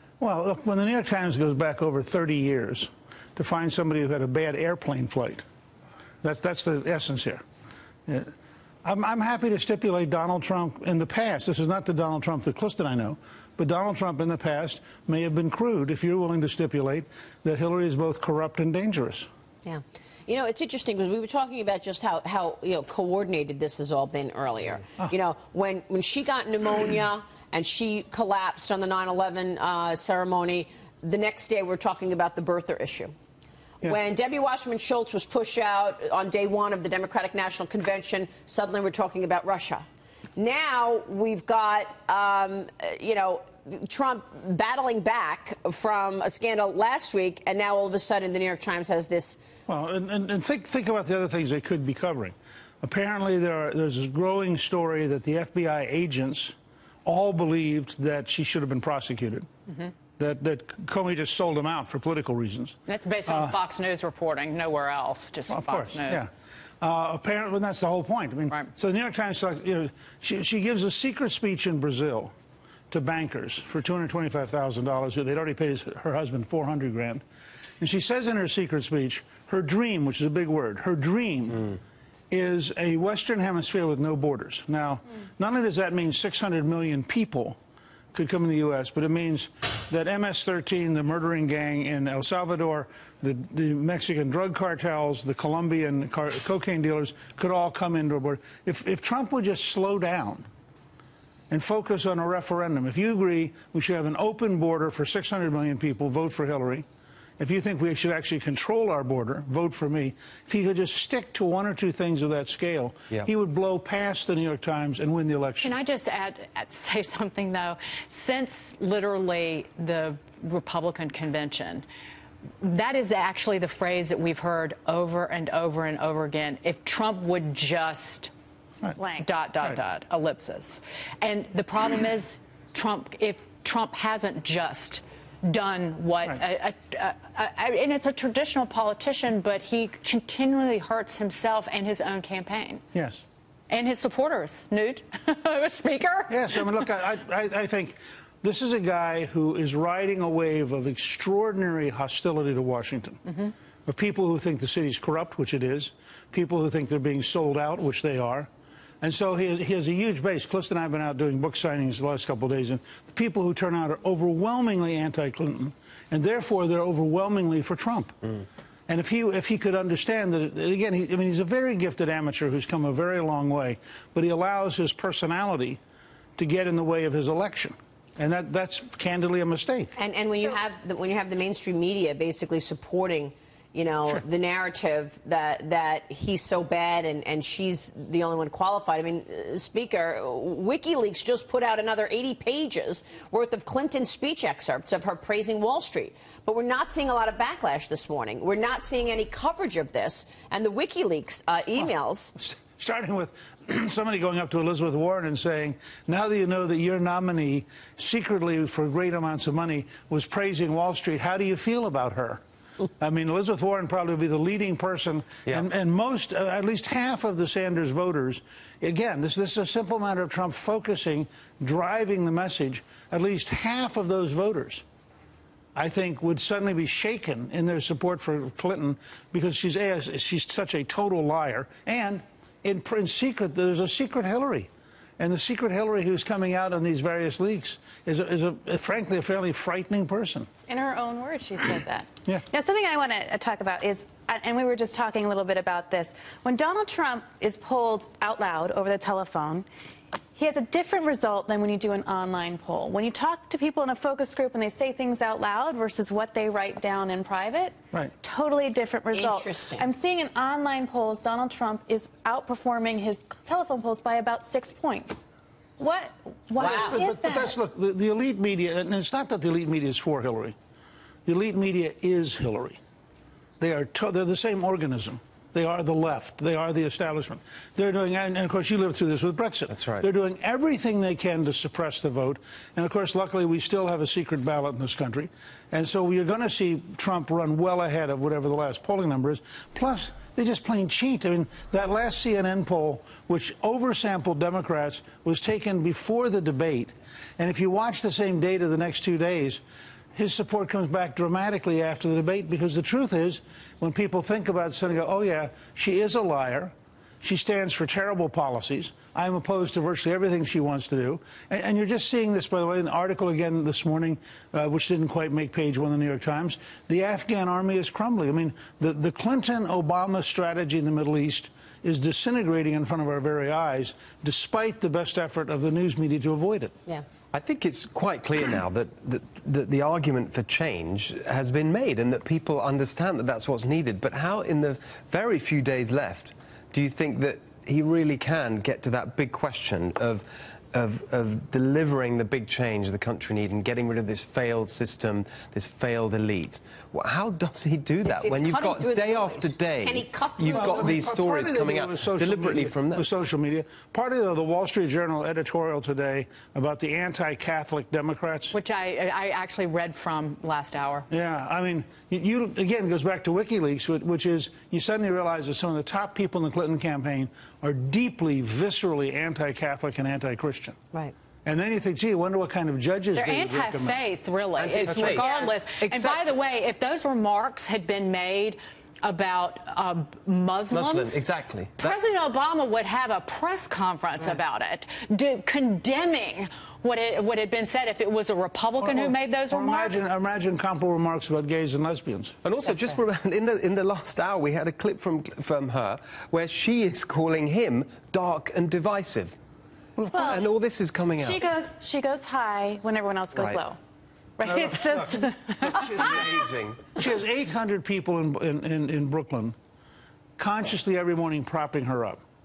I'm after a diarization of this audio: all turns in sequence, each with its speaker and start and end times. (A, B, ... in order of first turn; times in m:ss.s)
0:00.2-0:05.4 A
0:06.2-0:07.4 A
0:08.8-0:19.3 A
0:19.6-0:33.1 B
0:33.8-0:49.4 B
0:49.7-0:59.5 A
1:00.2-1:03.5 A
1:02.9-1:06.2 C
1:05.5-1:06.3 A
1:06.8-1:12.3 A
1:12.9-1:17.2 A
1:17.8-1:21.8 A
1:22.3-1:27.6 A
1:28.1-1:40.5 A
1:41.5-1:46.8 A
1:47.4-1:55.7 A
1:55.6-2:01.8 C
2:02.6-2:08.3 C
2:09.0-2:09.3 D
2:09.2-2:22.8 C
2:22.9-2:23.2 A
2:23.7-2:26.6 C
2:26.3-2:33.2 A
2:33.8-2:38.5 A
2:39.0-2:48.2 A
2:48.9-2:55.8 A
2:56.4-2:59.9 A
3:00.0-3:22.3 B
3:22.4-3:32.4 A
3:33.0-3:44.8 A
3:45.7-4:00.5 A
4:00.7-4:09.6 D
4:10.3-4:25.2 D
4:19.1-4:19.8 B
4:25.8-4:27.5 D
4:26.6-4:30.6 A
4:26.6-4:27.0 B
4:31.2-4:32.8 A
4:33.6-4:59.6 A
5:00.1-5:26.7 A
5:27.3-5:53.0 E
5:48.1-5:51.0 B
5:50.5-5:58.5 A
5:58.5-6:01.1 C
6:01.1-6:10.8 A
6:11.4-6:14.0 A
6:13.1-6:21.2 C
6:14.6-6:16.2 E
6:20.7-6:22.0 E
6:21.8-6:30.0 C
6:28.8-6:32.3 A
6:32.4-6:39.3 E
6:40.0-6:41.4 E
6:40.0-6:40.5 D
6:41.2-6:43.8 D
6:43.3-6:43.6 E
6:44.4-6:45.5 D
6:44.6-6:47.0 E
6:46.9-6:49.6 A
6:50.4-6:52.2 A